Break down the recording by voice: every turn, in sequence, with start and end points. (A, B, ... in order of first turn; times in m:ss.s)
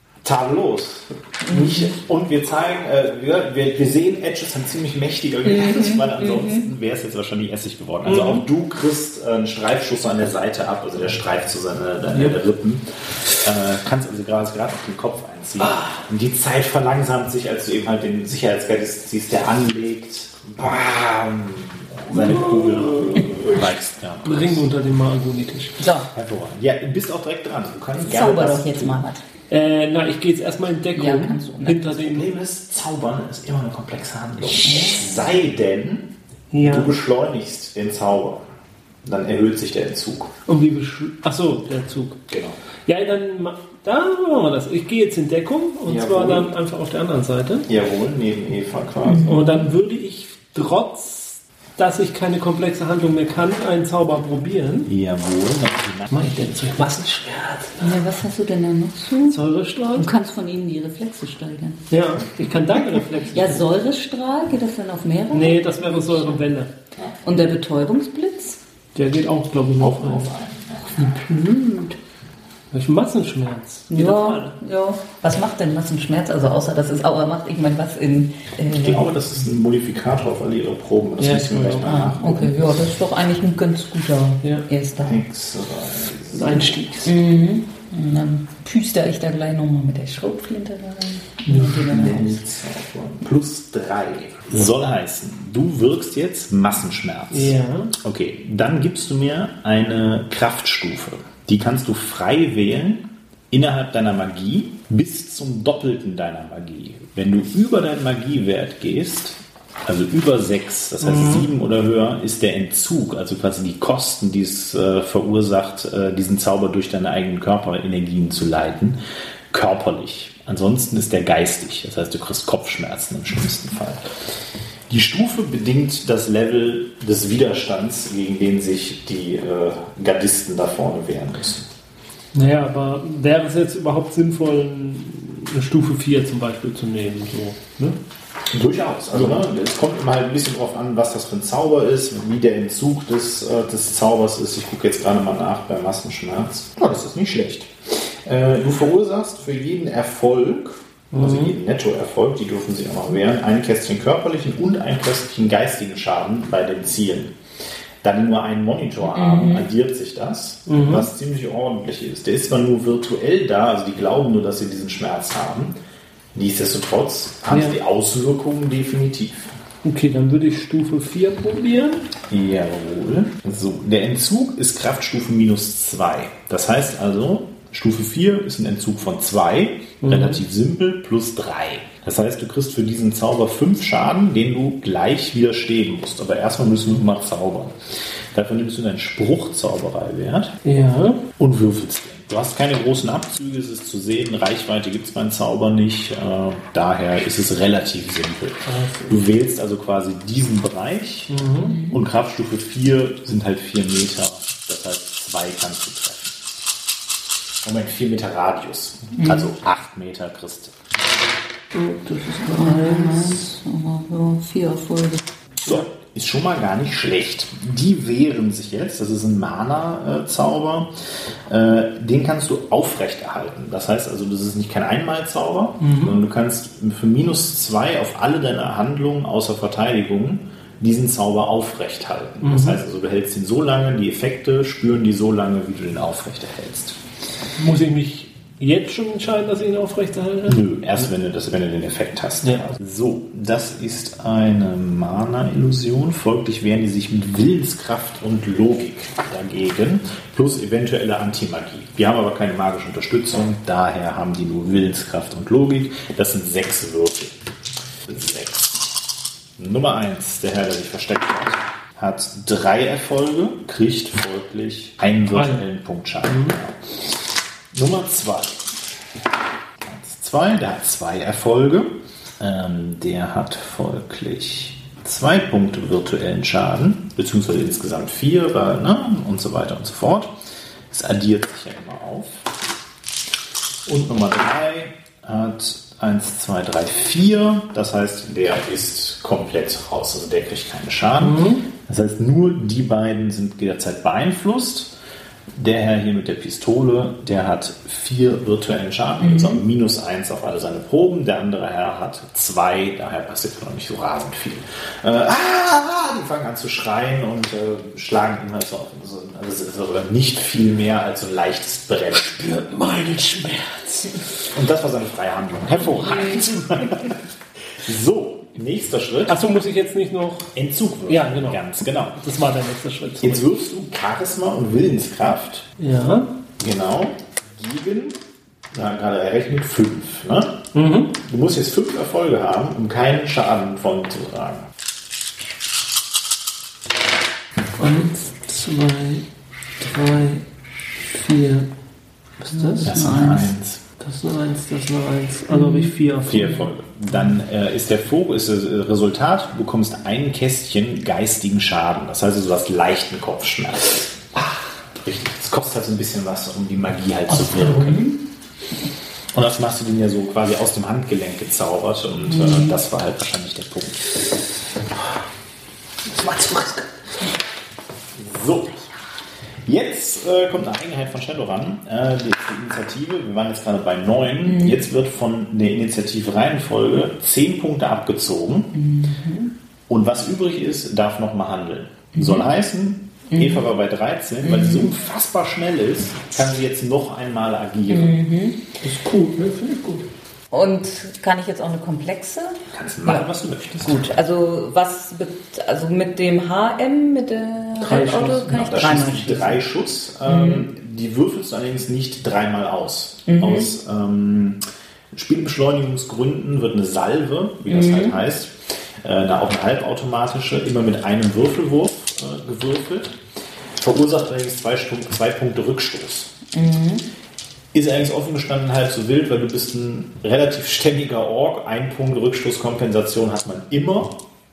0:00.2-0:24.6 A
0:01.5-0:01.9 B
0:01.5-0:01.9 C
0:05.4-0:06.7 B
0:08.0-0:08.5 C
0:12.1-0:12.4 C
0:22.1-0:23.7 C
0:24.2-0:25.8 C
0:25.8-0:26.1 B
0:26.1-0:29.0 A
0:27.9-0:29.2 B
0:29.5-0:32.3 C
0:31.0-0:31.9 B
0:32.0-0:38.4 A
0:34.6-0:35.3 B
0:36.5-0:37.0 C
0:39.0-0:40.3 A
0:40.5-0:42.2 C
0:42.3-0:42.6 A
0:42.9-0:47.7 C
0:45.9-0:46.5 A
0:47.7-0:49.4 A
0:49.0-0:49.5 B
0:49.3-0:54.9 C
0:54.9-0:57.0 A
0:56.1-0:58.0 C
0:57.8-0:59.4 B
0:59.3-1:00.1 C
0:59.9-1:01.8 B
1:01.9-1:03.7 C
1:03.3-1:06.4 B
1:05.3-1:06.7 C
1:07.2-1:08.6 B
1:09.0-1:10.3 C
1:09.8-1:11.2 A
1:11.0-1:12.0 B
1:12.7-1:14.6 C
1:13.9-1:19.1 B
1:18.8-1:22.8 A
1:21.2-1:22.0 C
1:21.8-1:25.2 B
1:25.0-1:26.8 A
1:26.3-1:27.1 C
1:27.0-1:32.4 B
1:31.5-1:31.9 C
1:31.8-1:59.0 A
1:37.3-1:37.9 C
1:51.0-1:51.5 C
1:59.5-2:04.1 A
2:04.9-2:11.7 A
2:12.3-2:18.0 C
2:18.5-2:37.4 A
2:31.1-2:31.6 C
2:38.0-2:45.8 A
2:39.0-2:39.7 B
2:40.7-2:41.1 C
2:46.3-2:49.5 A
2:47.5-2:47.8 C
2:49.8-2:52.0 C
2:52.3-3:10.6 A
3:00.0-3:00.4 C
3:10.6-3:11.3 C
3:11.4-3:26.4 A
3:18.7-3:19.2 C
3:21.3-3:21.8 C
3:21.6-3:22.0 B
3:27.6-3:30.8 A
3:29.2-3:29.5 B
3:31.7-3:33.4 C
3:32.5-3:35.3 B
3:35.6-3:57.0 A
3:45.8-3:46.2 C
3:52.4-3:52.8 C
3:57.6-4:00.6 C
4:00.5-4:17.4 A
4:18.1-4:19.0 A
4:19.6-4:28.8 A
4:25.3-4:25.6 C
4:26.2-4:26.6 C
4:29.8-4:40.4 A
4:40.9-4:42.5 A
4:43.9-4:54.9 A
4:51.2-4:51.6 C
4:55.6-5:12.4 A
4:59.2-4:59.6 B
5:12.2-5:14.2 C
5:14.5-5:17.2 A
5:16.3-5:16.9 C
5:17.8-5:19.4 A
5:19.3-5:20.5 C
5:20.6-5:22.2 A
5:21.1-5:21.6 C
5:22.2-5:23.4 C
5:23.2-5:25.7 A
5:25.8-5:26.3 C
5:26.6-5:28.2 A
5:28.7-5:30.6 A
5:30.7-5:31.2 C
5:31.2-5:34.7 A
5:37.8-5:39.3 C
5:39.8-5:40.4 C
5:41.0-5:41.7 C
5:42.4-5:43.0 C
5:42.5-5:43.5 B
5:42.8-5:43.8 A
5:44.0-5:46.7 C
5:45.5-5:45.9 B
5:46.2-5:58.1 A
5:57.3-5:58.2 B
5:59.3-6:04.4 A
6:02.3-6:02.8 B
6:08.2-6:09.0 A
6:09.6-6:18.8 A
6:14.5-6:14.8 B
6:18.8-6:19.5 B
6:19.9-6:28.2 A
6:22.1-6:22.5 B
6:23.3-6:23.6 B
6:24.4-6:24.9 B
6:27.9-6:28.6 B
6:28.8-6:30.1 C
6:30.5-6:33.3 B
6:32.7-6:34.2 A
6:33.8-6:39.6 B
6:37.8-6:38.5 C
6:38.2-6:44.6 A
6:40.2-6:40.7 B
6:43.3-6:43.7 B
6:45.1-6:53.2 A
6:47.7-6:48.2 B
6:53.8-6:56.3 A
6:56.5-6:57.1 B
6:57.7-7:04.2 A